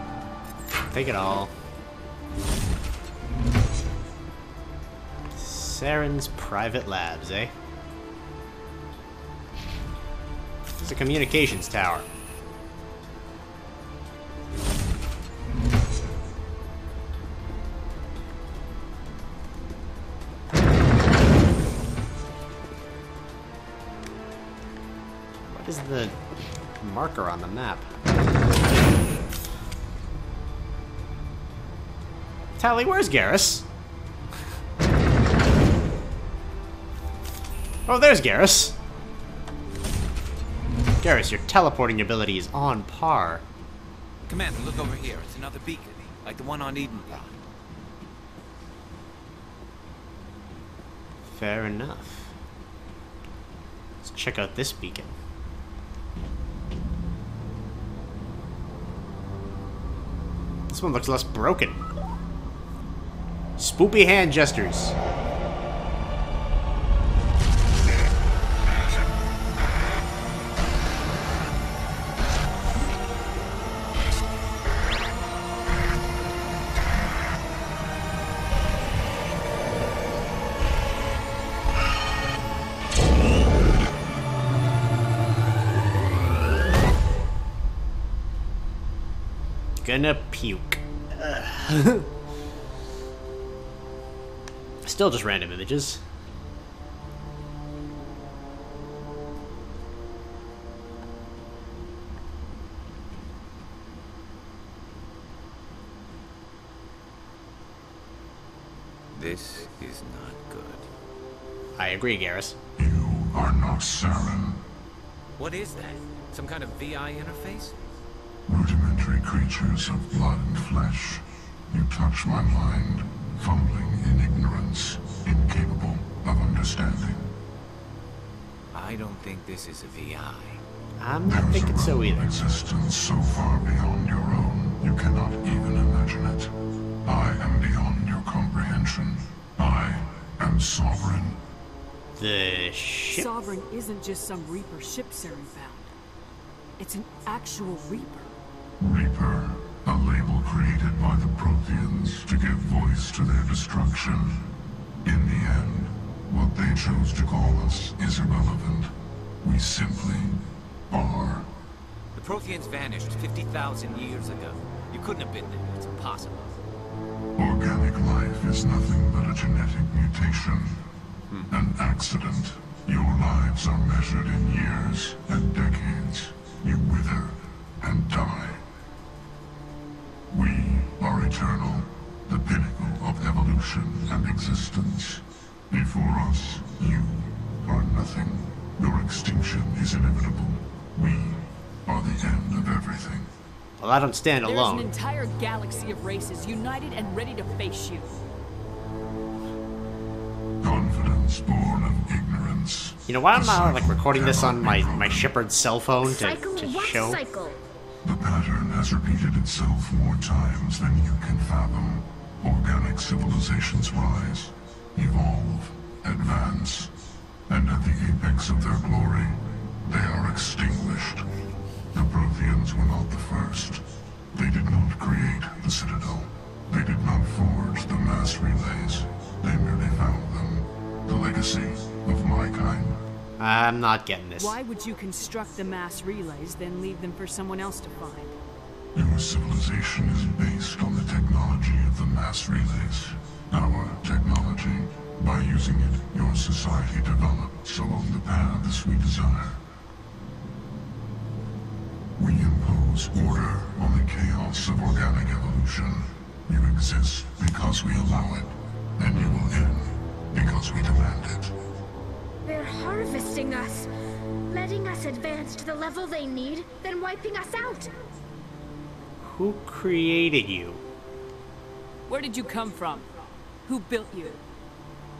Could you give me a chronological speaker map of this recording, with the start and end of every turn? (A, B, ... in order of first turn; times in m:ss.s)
0:00.9-0:01.5 A
0:05.4-0:07.5 A
0:10.8-0:12.1 A
0:25.5-0:26.2 A
0:26.8-0:27.9 A
0:32.6-0:33.7 A
0:37.9-0:38.8 A
0:41.0-0:43.4 A
0:44.3-0:47.3 B
0:51.3-0:52.3 A
0:54.0-0:55.2 A
1:00.7-1:01.8 A
1:03.6-1:05.0 A
1:29.8-1:32.1 A
1:34.8-1:36.0 A
1:49.1-1:50.9 B
1:51.8-1:52.6 A
1:52.8-1:54.6 C
1:55.4-1:57.8 B
1:58.5-2:07.3 C
2:08.7-2:10.6 B
2:11.0-2:12.3 A
2:11.2-2:16.5 C
2:17.1-2:21.4 C
2:22.2-2:23.3 A
2:23.1-2:25.9 D
2:26.8-2:28.3 D
2:28.8-2:34.5 C
2:35.0-2:38.9 C
2:39.4-2:41.5 C
2:42.2-2:46.6 B
2:47.4-2:50.8 C
2:51.5-2:58.6 C
3:00.3-3:13.3 C
3:13.8-3:14.9 A
3:14.4-3:18.2 D
3:20.6-3:25.3 C
3:23.1-3:27.2 A
3:26.0-3:27.6 E
3:28.0-3:36.9 C
3:37.5-3:41.3 C
3:41.9-3:53.0 C
3:53.4-3:54.6 A
3:54.4-3:58.4 D
3:58.9-4:09.6 C
4:12.2-4:21.5 C
4:22.4-4:23.9 E
4:24.5-4:27.9 E
4:29.2-4:30.8 A
4:32.1-4:33.1 D
4:33.6-4:34.4 D